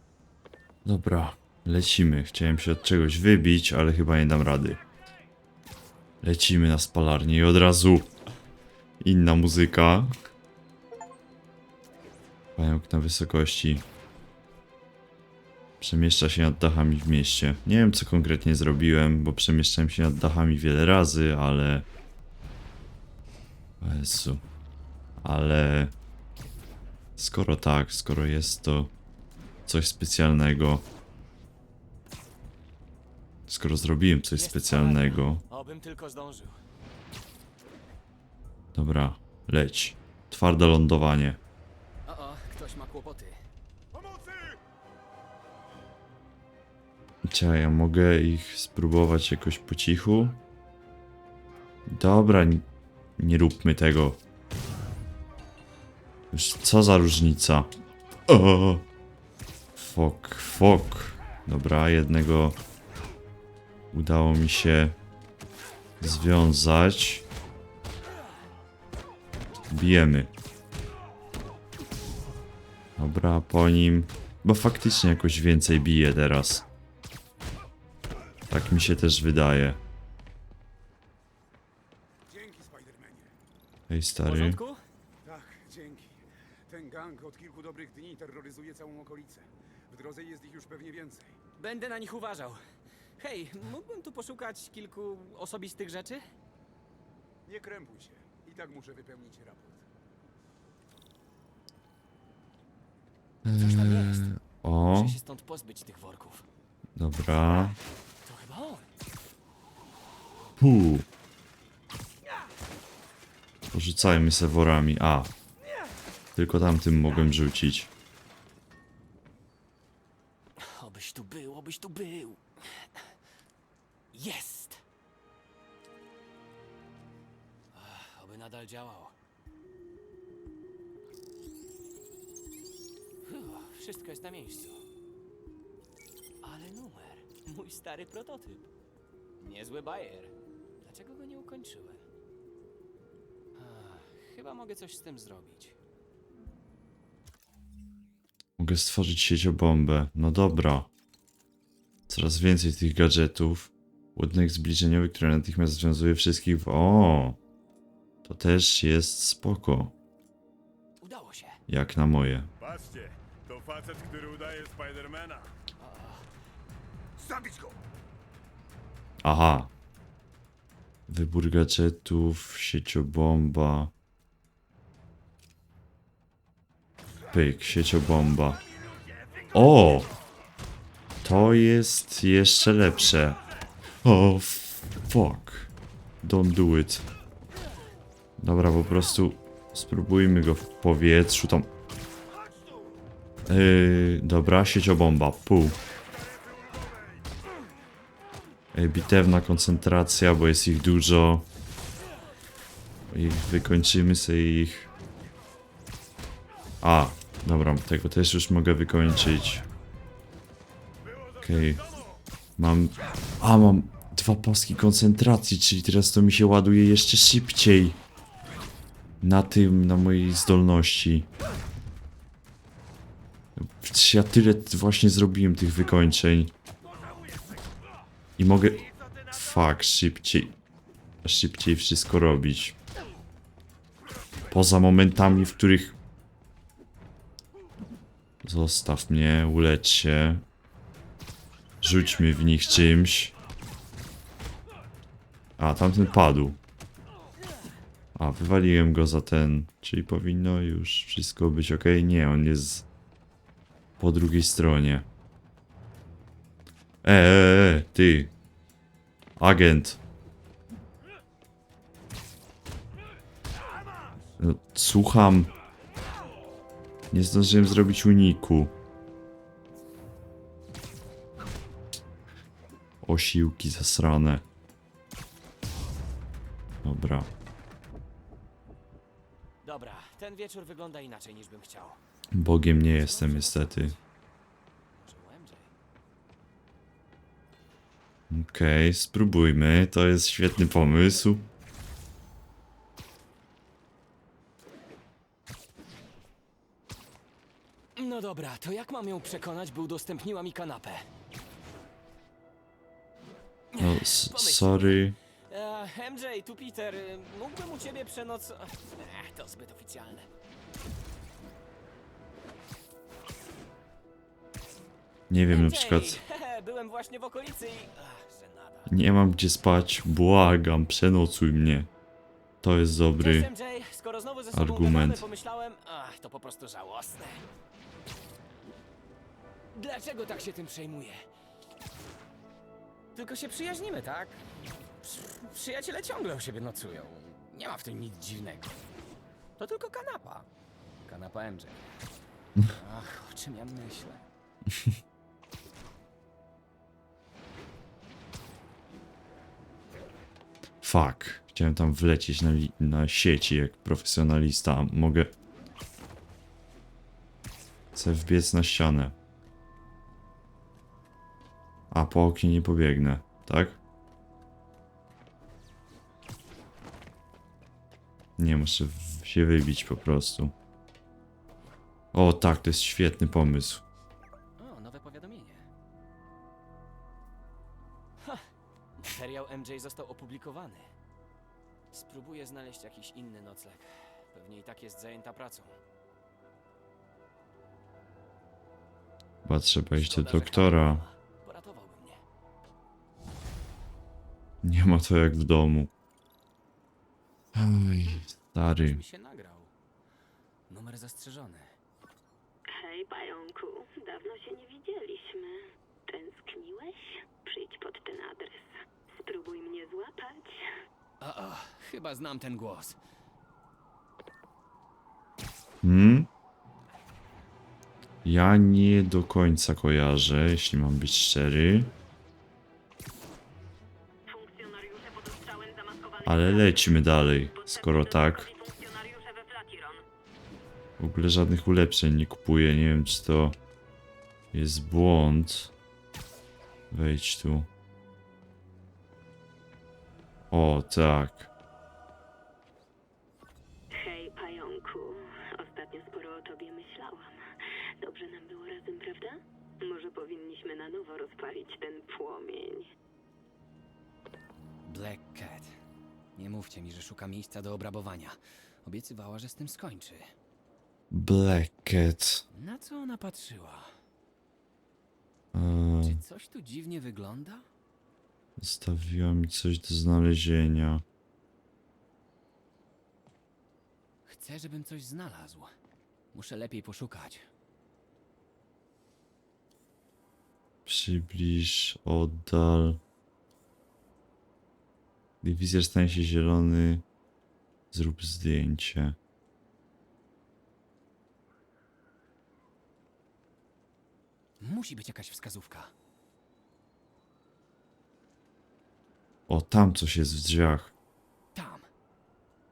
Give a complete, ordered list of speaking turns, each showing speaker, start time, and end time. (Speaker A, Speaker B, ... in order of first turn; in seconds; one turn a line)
Speaker A: 0.8-4.8
Speaker A: 6.2-8.1
Speaker A: 9.0-10.1
Speaker A: 12.6-13.8
Speaker A: 15.8-21.9
Speaker A: 23.8-24.4
Speaker A: 25.2-25.9
Speaker A: 27.2-28.9
Speaker A: 29.7-30.9
Speaker A: 33.5-35.4
Speaker B: 34.3-36.6
Speaker A: 38.7-41.4
Speaker B: 42.0-43.4
Speaker A: 47.3-50.4
Speaker A: 51.9-52.7
Speaker A: 53.2-54.2
Speaker A: 56.3-57.7
Speaker A: 58.3-58.9
Speaker A: 59.8-62.6
Speaker A: 63.9-65.0
Speaker A: 66.0-67.2
Speaker A: 69.7-70.3
Speaker A: 73.0-76.6
Speaker A: 78.5-79.8
Speaker C: 82.3-83.3
Speaker A: 83.9-84.6
Speaker B: 84.2-84.8
Speaker C: 85.2-91.3
Speaker B: 91.6-92.6
Speaker B: 93.2-96.3
Speaker C: 97.5-99.8
Speaker A: 103.5-105.2
Speaker B: 103.5-104.3
Speaker B: 104.8-106.5
Speaker A: 107.0-107.8
Speaker B: 108.2-108.9
Speaker A: 110.6-111.0
Speaker A: 113.7-115.3
Speaker B: 115.6-115.9
Speaker A: 116.3-117.9
Speaker B: 120.5-123.1
Speaker B: 124.1-124.8
Speaker B: 127.7-129.1
Speaker B: 133.2-134.8
Speaker B: 136.4-138.7
Speaker B: 139.4-142.0
Speaker B: 143.6-145.8
Speaker A: 148.6-150.9
Speaker A: 152.1-157.4
Speaker A: 158.2-159.9
Speaker B: 161.0-161.6
Speaker A: 161.7-162.5
Speaker D: 162.7-165.4
Speaker B: 165.8-166.2
Speaker A: 169.2-169.7
Speaker A: 171.1-173.9
Speaker A: 177.3-178.6
Speaker A: 179.5-180.1
Speaker A: 181.2-183.4
Speaker A: 184.0-185.7
Speaker A: 186.2-187.1
Speaker A: 188.4-191.7
Speaker A: 193.5-195.8
Speaker A: 198.7-201.5
Speaker A: 203.1-204.9
Speaker A: 206.8-209.6
Speaker A: 211.4-211.8
Speaker A: 212.6-218.0
Speaker A: 219.2-221.3
Speaker A: 223.6-226.5
Speaker A: 228.4-230.6
Speaker A: 231.2-232.8
Speaker A: 234.5-236.0
Speaker A: 238.4-240.4
Speaker A: 241.8-243.3
Speaker A: 245.6-246.6
Speaker A: 248.2-252.9
Speaker A: 254.0-255.1
Speaker A: 257.0-258.3
Speaker A: 259.4-260.0
Speaker A: 264.4-265.5
Speaker A: 267.1-268.7
Speaker A: 273.0-274.4
Speaker A: 276.8-277.3
Speaker B: 279.6-282.0
Speaker A: 282.3-283.9
Speaker B: 282.9-284.0
Speaker B: 284.9-285.7
Speaker A: 288.3-291.5
Speaker B: 297.9-301.1
Speaker B: 303.7-310.3
Speaker A: 303.8-305.2
Speaker A: 315.3-316.2
Speaker B: 315.5-318.9
Speaker A: 318.9-321.9
Speaker A: 322.6-323.5
Speaker B: 323.2-327.5
Speaker A: 324.5-325.2
Speaker B: 329.7-331.3
Speaker B: 333.1-334.4
Speaker B: 335.0-338.8
Speaker B: 339.6-340.5
Speaker B: 341.0-341.9
Speaker B: 342.7-344.2
Speaker A: 350.8-355.3
Speaker A: 357.9-359.1
Speaker A: 361.9-363.8
Speaker A: 368.4-370.5
Speaker A: 372.1-373.8
Speaker B: 374.6-375.7
Speaker B: 379.0-380.9
Speaker B: 381.9-385.8
Speaker A: 389.4-391.0
Speaker B: 389.9-392.2
Speaker A: 394.6-395.9
Speaker A: 397.5-399.0
Speaker B: 398.7-399.7
Speaker B: 400.7-401.8
Speaker E: 402.7-410.6
Speaker B: 411.2-413.0
Speaker A: 415.8-416.3
Speaker A: 418.2-421.9
Speaker E: 424.3-430.0
Speaker A: 426.2-428.5
Speaker A: 431.0-433.6
Speaker A: 434.5-435.7
Speaker A: 436.9-437.7
Speaker A: 440.5-441.5
Speaker E: 443.9-447.4
Speaker E: 448.0-452.9
Speaker B: 454.8-455.7
Speaker B: 456.3-460.3
Speaker A: 461.1-462.4
Speaker B: 462.5-463.9
Speaker A: 465.5-466.2
Speaker B: 466.0-467.6
Speaker A: 468.6-471.0
Speaker B: 474.2-475.7
Speaker B: 476.3-477.5
Speaker A: 480.9-483.0
Speaker A: 485.4-487.0
Speaker A: 487.9-489.2
Speaker B: 494.6-495.9
Speaker A: 499.5-500.9
Speaker B: 501.5-501.9